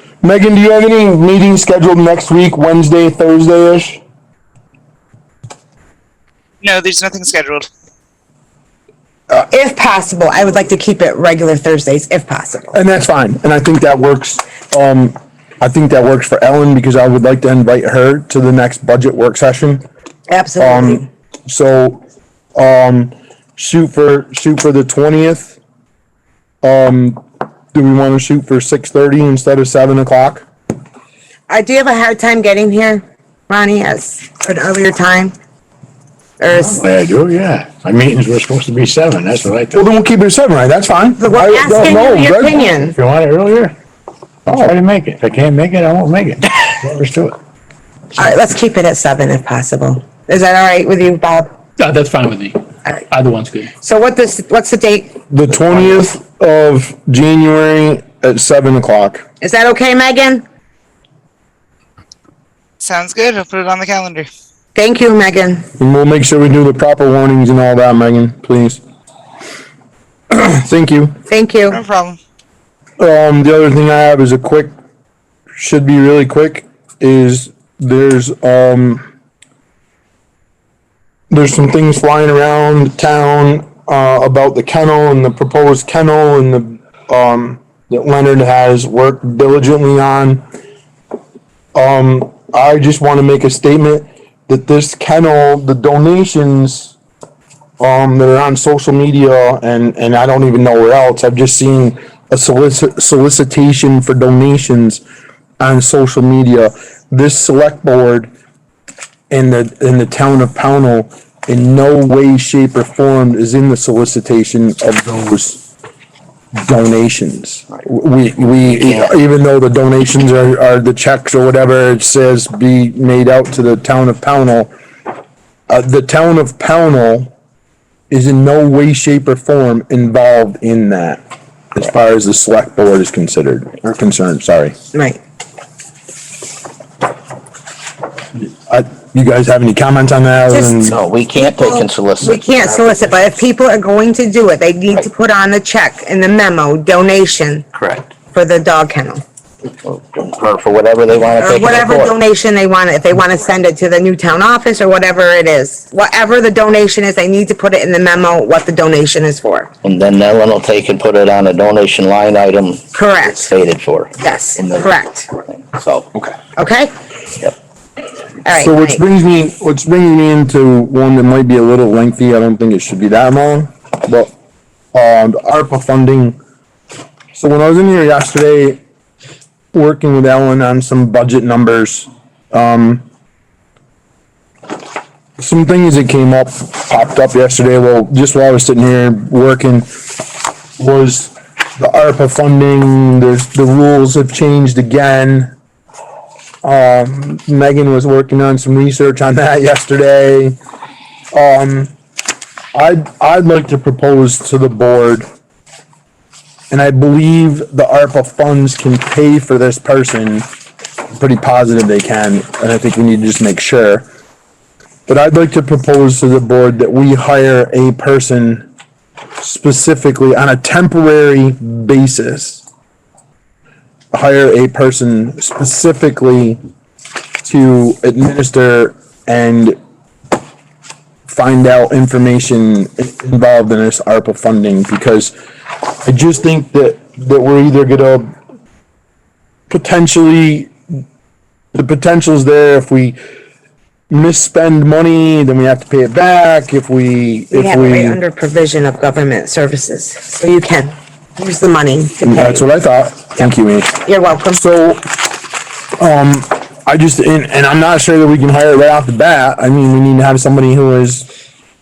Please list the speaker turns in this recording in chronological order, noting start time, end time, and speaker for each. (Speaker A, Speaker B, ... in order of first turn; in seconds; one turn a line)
Speaker A: 0.2-4.0
Speaker B: 6.6-7.7
Speaker C: 9.3-12.8
Speaker A: 12.7-19.8
Speaker C: 20.3-21.1
Speaker A: 20.6-22.0
Speaker A: 22.6-25.6
Speaker A: 26.6-27.2
Speaker A: 27.7-30.4
Speaker C: 31.5-35.3
Speaker C: 36.4-36.8
Speaker D: 36.5-39.8
Speaker A: 39.7-42.7
Speaker C: 41.2-42.9
Speaker D: 42.9-43.7
Speaker A: 44.5-44.7
Speaker D: 44.5-47.4
Speaker C: 48.1-51.5
Speaker E: 51.8-53.7
Speaker C: 53.8-55.2
Speaker A: 55.3-59.2
Speaker C: 59.4-60.4
Speaker B: 62.8-64.3
Speaker C: 64.7-65.7
Speaker A: 65.8-68.8
Speaker A: 70.3-71.1
Speaker C: 71.3-71.8
Speaker B: 71.7-72.2
Speaker A: 73.0-74.7
Speaker A: 75.6-79.1
Speaker A: 81.3-90.4
Speaker A: 91.7-96.9
Speaker A: 97.8-105.0
Speaker A: 105.6-108.3
Speaker A: 109.3-115.6
Speaker A: 116.5-124.7
Speaker A: 125.7-127.3
Speaker A: 128.1-131.2
Speaker A: 131.7-134.8
Speaker C: 134.9-135.2
Speaker A: 138.7-141.0
Speaker C: 140.5-147.7
Speaker F: 140.8-143.2
Speaker F: 147.7-148.1
Speaker C: 148.3-149.2
Speaker F: 149.8-152.2
Speaker C: 151.4-159.7
Speaker F: 159.8-164.9
Speaker C: 162.9-163.6
Speaker C: 164.2-165.3
Speaker F: 165.5-166.1
Speaker C: 166.6-166.9
Speaker C: 168.4-169.0
Speaker A: 168.6-174.3
Speaker A: 174.9-176.4
Speaker A: 177.3-178.8
Speaker A: 179.7-183.0
Speaker A: 185.4-190.2
Speaker A: 190.8-195.5
Speaker A: 196.6-200.6
Speaker A: 201.3-201.9
Speaker A: 202.7-205.3
Speaker A: 206.7-210.5
Speaker A: 211.1-214.1
Speaker A: 215.1-218.7
Speaker A: 219.4-222.6
Speaker A: 224.1-226.6
Speaker A: 227.4-229.8
Speaker A: 231.3-235.3
Speaker A: 235.9-238.3
Speaker A: 239.7-240.7
Speaker A: 241.7-243.2
Speaker A: 244.1-248.2
Speaker C: 247.5-252.6
Speaker A: 252.2-254.0
Speaker C: 254.0-254.6
Speaker A: 254.5-255.2
Speaker A: 256.0-261.3